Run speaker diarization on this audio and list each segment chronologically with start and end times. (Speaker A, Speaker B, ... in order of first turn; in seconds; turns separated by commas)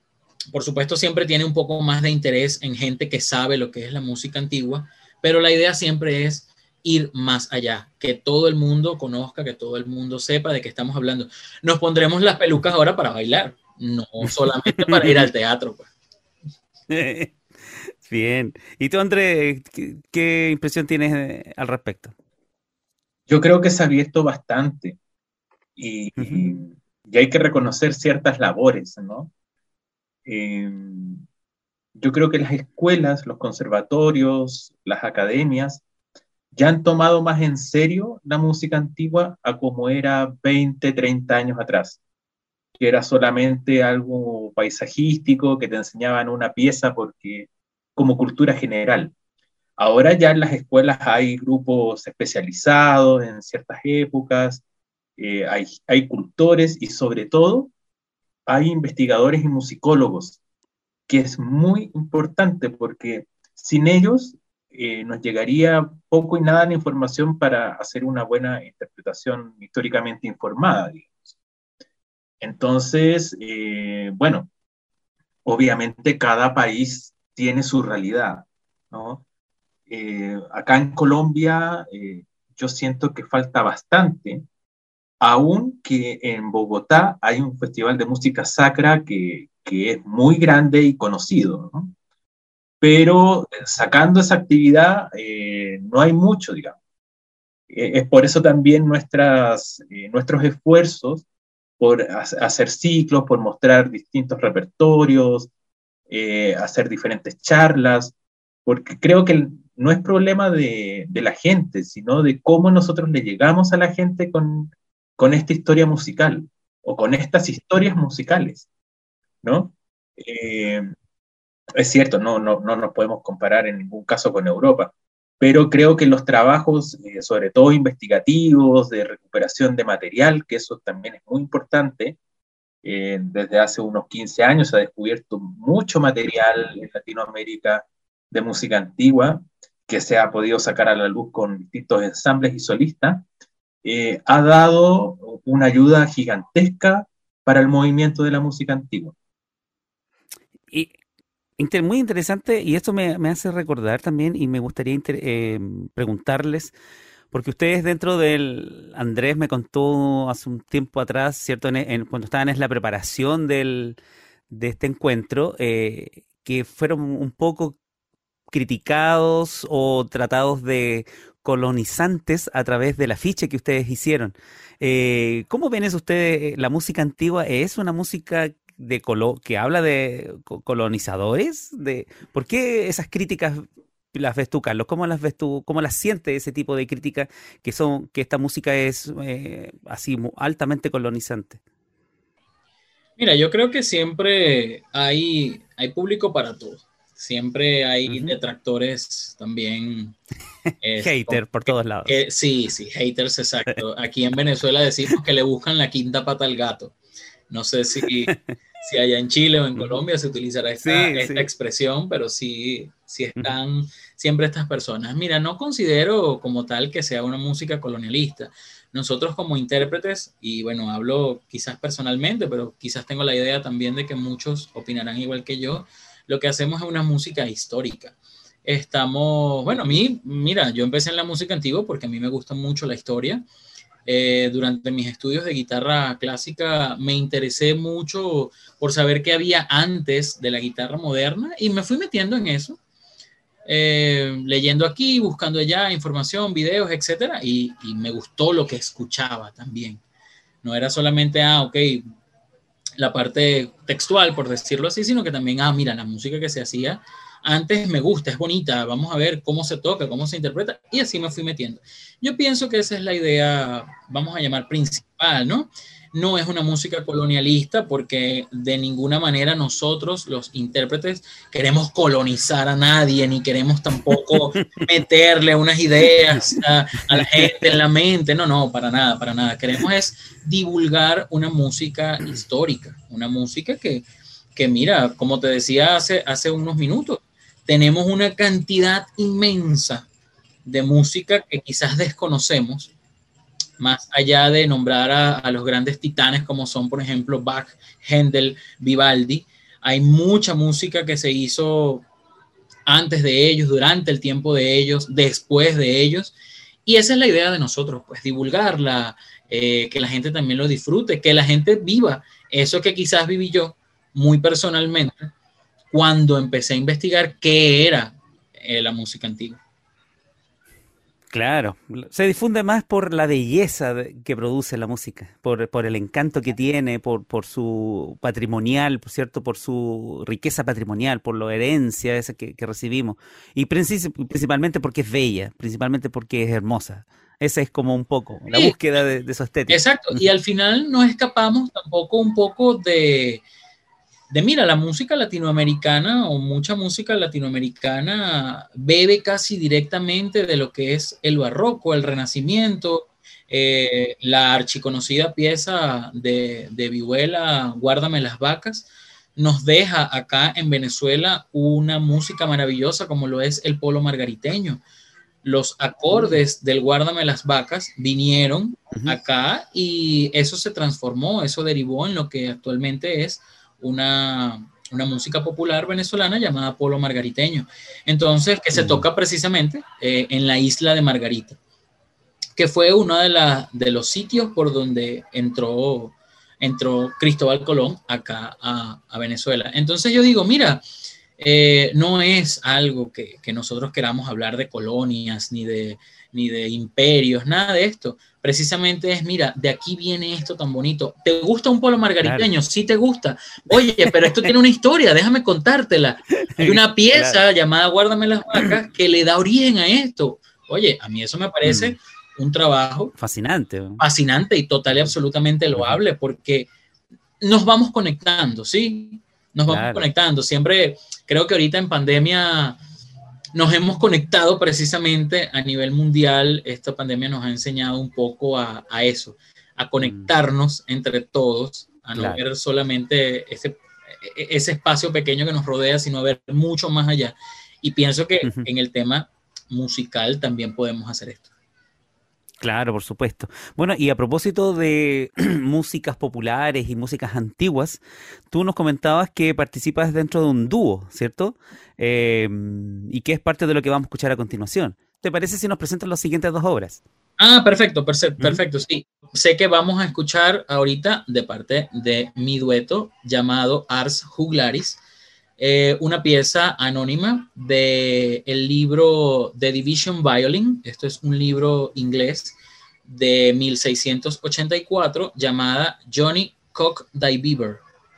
Speaker A: 0.5-15.9, Speaker B: 14.8-15.3, Speaker B: 16.9-22.1, Speaker C: 23.3-25.0, Speaker C: 25.8-29.3, Speaker B: 26.2-26.4, Speaker C: 30.2-31.2, Speaker C: 32.0-35.8, Speaker C: 36.5-42.0, Speaker C: 42.8-49.1, Speaker C: 49.8-54.6, Speaker C: 55.2-57.7, Speaker C: 58.5-60.4, Speaker C: 61.1-71.3, Speaker C: 72.4-74.5, Speaker C: 75.4-79.2, Speaker C: 79.9-84.4, Speaker C: 85.2-91.9, Speaker C: 92.8-96.8, Speaker C: 97.7-101.2, Speaker C: 101.8-105.5, Speaker C: 106.1-108.1, Speaker C: 108.7-118.7, Speaker C: 119.4-120.9, Speaker C: 121.8-132.2, Speaker C: 132.8-143.2, Speaker C: 143.8-149.1, Speaker B: 151.6-156.7, Speaker B: 157.3-164.0, Speaker B: 164.5-167.8, Speaker B: 168.5-191.6, Speaker A: 193.2-200.2, Speaker B: 198.1-198.3, Speaker A: 200.8-206.9, Speaker B: 201.0-202.2, Speaker A: 207.5-233.4, Speaker B: 210.8-211.5, Speaker A: 234.1-242.8, Speaker A: 243.7-250.0, Speaker A: 250.6-252.0, Speaker A: 253.0-290.1, Speaker B: 274.3-274.8, Speaker B: 276.3-277.7, Speaker A: 290.6-292.9, Speaker A: 293.8-302.0, Speaker A: 302.9-306.3, Speaker A: 306.9-315.3, Speaker A: 315.9-319.6, Speaker B: 321.3-340.2, Speaker A: 338.5-338.8, Speaker A: 339.7-343.4, Speaker A: 344.3-364.8, Speaker A: 365.4-381.6, Speaker B: 378.7-379.0, Speaker A: 382.6-390.8, Speaker A: 391.4-413.1, Speaker B: 402.2-402.5, Speaker B: 404.0-404.5, Speaker B: 406.4-407.4, Speaker B: 411.6-411.9, Speaker B: 413.2-414.0, Speaker A: 414.0-416.7, Speaker B: 415.7-416.0, Speaker A: 417.4-422.8, Speaker B: 419.7-420.1, Speaker A: 423.5-441.5, Speaker B: 430.0-430.3, Speaker B: 432.1-432.4, Speaker B: 438.4-438.7, Speaker B: 442.6-448.0, Speaker B: 448.5-457.0, Speaker A: 457.4-465.0, Speaker A: 465.6-477.8